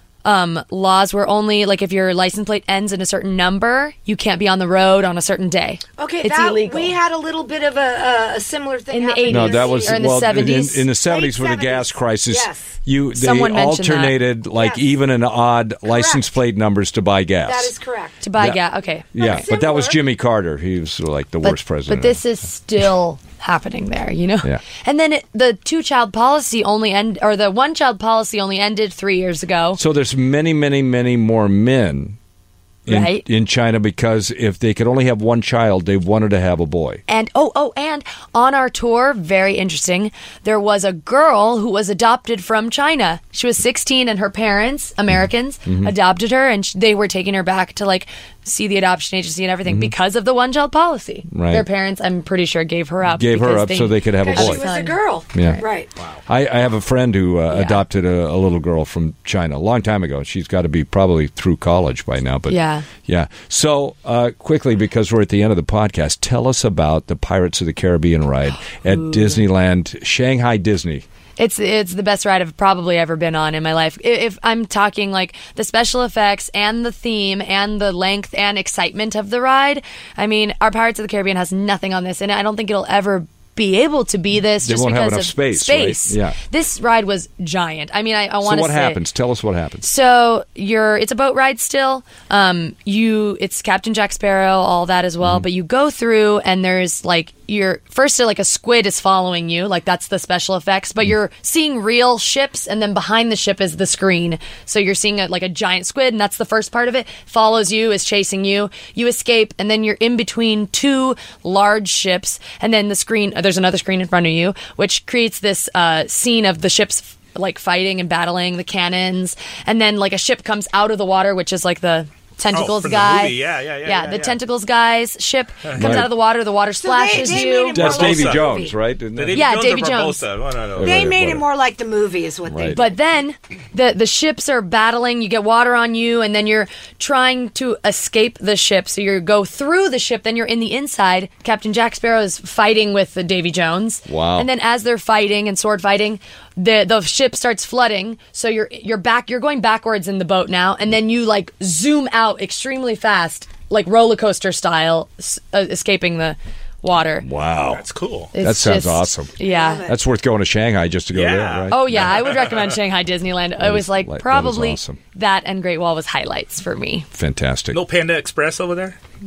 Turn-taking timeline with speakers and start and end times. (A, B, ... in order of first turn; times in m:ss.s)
0:00.2-0:06.9 A
0:06.0-0:12.6 B
0:08.9-0:10.8 A
0:09.3-0:17.7 C
0:13.1-0:14.2 A
0:14.6-0:14.8 B
0:15.8-0:16.3 B
0:17.4-0:18.2 B
0:18.2-0:19.1 A
0:19.1-0:22.2 C
0:19.2-0:20.0 B
0:21.4-0:29.8 A
0:29.8-0:32.2 C
0:32.8-0:37.0 C
0:32.9-0:33.2 A
0:37.1-0:55.6 A
0:45.6-0:45.9 C
0:49.6-0:49.9 C
0:51.3-0:51.6 C
0:53.0-0:54.6 C
0:54.2-0:55.9 B
0:55.3-0:55.6 C
0:56.2-1:11.0 C
0:57.5-0:57.8 A
1:02.5-1:02.8 A
1:11.4-1:29.0 A
1:24.6-1:26.4 C
1:28.4-1:29.8 C
1:29.8-2:07.9 A
2:02.5-2:04.3 D
2:05.7-2:06.1 C
2:06.8-2:08.7 B
2:07.2-2:09.5 C
2:07.8-2:08.5 D
2:09.2-2:11.0 D
2:09.3-2:10.2 A
2:10.8-2:11.4 C
2:10.8-2:12.8 B
2:12.5-2:12.8 C
2:12.7-2:37.2 A
2:24.1-2:24.5 C
2:37.2-2:37.8 C
2:37.7-2:38.3 D
2:38.3-2:39.8 A
2:38.4-2:42.2 C
2:39.4-2:40.0 B
2:41.1-2:42.7 D
2:41.7-2:47.1 A
2:43.6-2:45.0 C
2:47.1-2:47.8 C
2:47.7-2:49.0 D